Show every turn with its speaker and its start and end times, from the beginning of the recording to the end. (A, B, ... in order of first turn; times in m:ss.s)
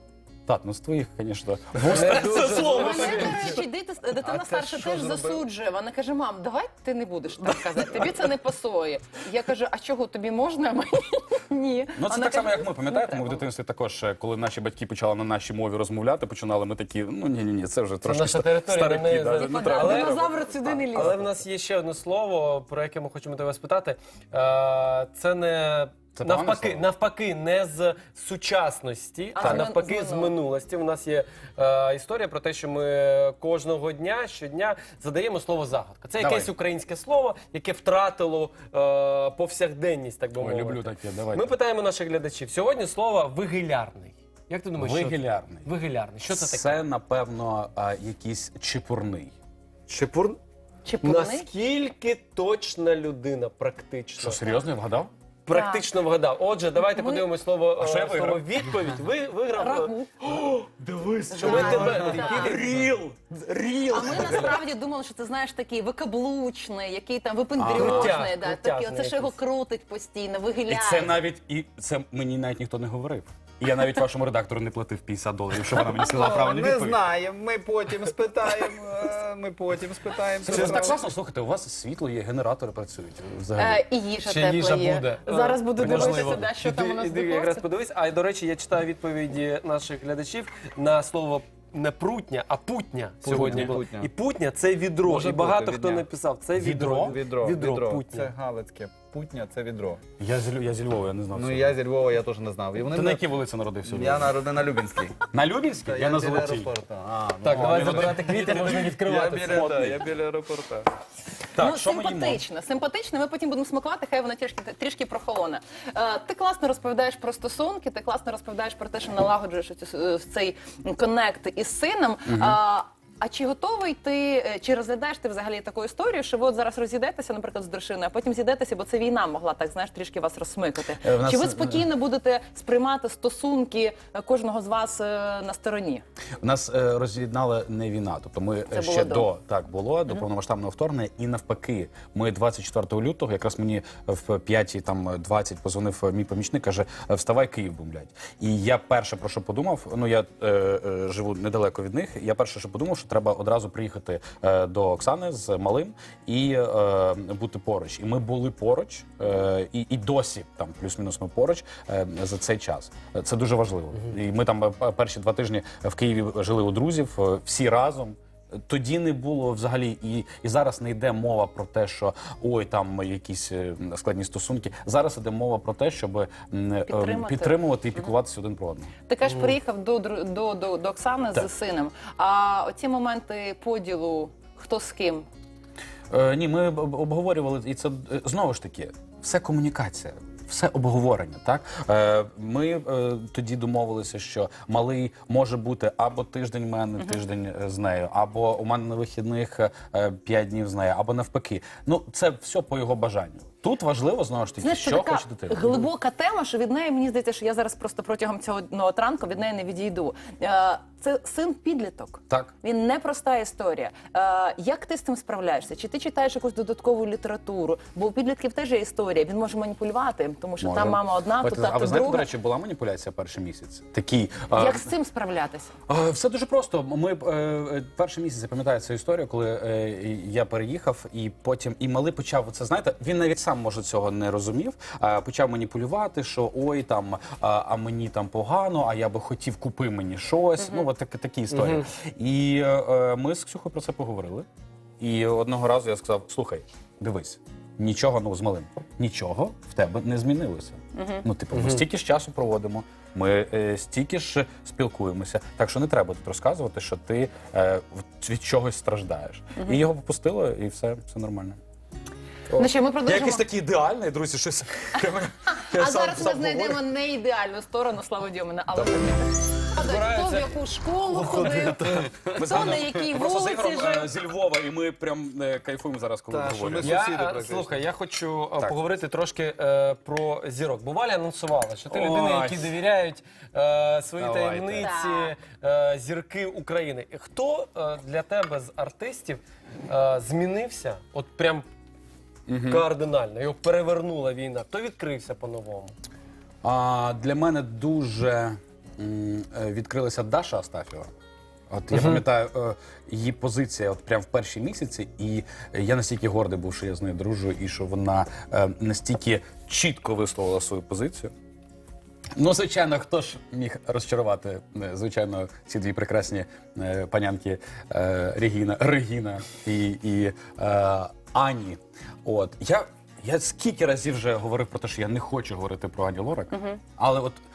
0:00.5-0:03.6 A
0:01.8-0:03.6 B
0:02.5-0:13.4 C
0:04.2-0:05.4 D
0:12.0-0:21.2 A
0:18.0-0:20.4 B
0:19.4-0:21.2 C
0:20.9-0:46.8 B
0:26.2-0:26.8 A
0:29.4-0:30.3 C
0:29.4-0:29.7 A
0:36.2-0:36.5 A
0:40.4-0:41.5 A
0:44.8-0:45.7 A
0:46.3-0:49.3 A
0:49.9-0:50.4 B
0:50.8-0:51.5 C
0:51.0-0:54.4 B
0:54.2-0:55.1 A
0:55.5-1:00.0 B
0:55.5-0:55.9 C
0:56.9-0:57.3 C
0:57.8-0:58.5 A
0:59.6-1:00.1 C
1:00.2-1:04.6 A
1:01.3-1:02.6 C
1:01.4-1:02.8 B
1:03.9-1:11.2 C
1:07.6-1:08.2 A
1:07.8-1:09.4 B
1:10.7-1:17.0 A
1:15.9-1:21.0 D
1:20.4-1:23.8 A
1:23.6-1:27.6 C
1:24.2-1:38.3 B
1:25.8-1:26.2 A
1:33.2-1:34.1 D
1:33.4-1:33.7 A
1:35.0-1:36.1 D
1:36.6-1:37.2 A
1:36.9-1:40.0 D
1:40.2-1:41.7 A
1:41.4-1:43.2 D
1:42.9-1:44.3 A
1:43.8-1:45.2 D
1:45.3-1:46.7 A
1:45.9-1:50.9 D
1:47.4-1:49.9 B
1:47.5-1:48.8 A
1:49.6-1:50.0 A
1:51.6-1:52.4 A
1:51.6-2:16.0 C
2:02.3-2:02.6 A
2:11.0-2:11.9 A
2:16.4-2:58.9 A
2:18.7-2:19.3 C
2:56.9-2:58.1 C
2:59.1-3:05.3 C
3:06.1-3:25.8 A
3:24.6-3:42.3 C
3:40.6-3:44.9 A
3:44.5-3:45.7 C
3:45.9-4:04.5 A
4:00.6-4:00.9 C
4:01.5-4:01.9 B
4:05.0-4:21.6 A
4:11.0-4:11.2 C
4:11.5-4:11.9 B
4:19.6-4:19.8 C
4:22.5-4:26.8 A
4:22.6-4:23.5 C
4:25.6-4:31.9 C
4:28.7-4:29.1 A
4:29.8-4:30.6 B
4:31.2-4:31.8 B
4:31.2-4:32.4 D
4:32.4-4:37.0 A
4:32.4-4:34.1 C
4:36.3-4:37.8 D
4:36.8-4:51.7 B
4:41.9-4:42.7 A
4:44.2-4:44.9 A
4:44.8-4:45.4 C
4:52.5-4:52.9 A
4:52.7-4:55.9 B
4:56.6-5:01.1 A
5:01.7-5:11.3 A
5:01.9-5:02.2 B
5:12.4-5:27.4 A
5:26.5-5:26.8 C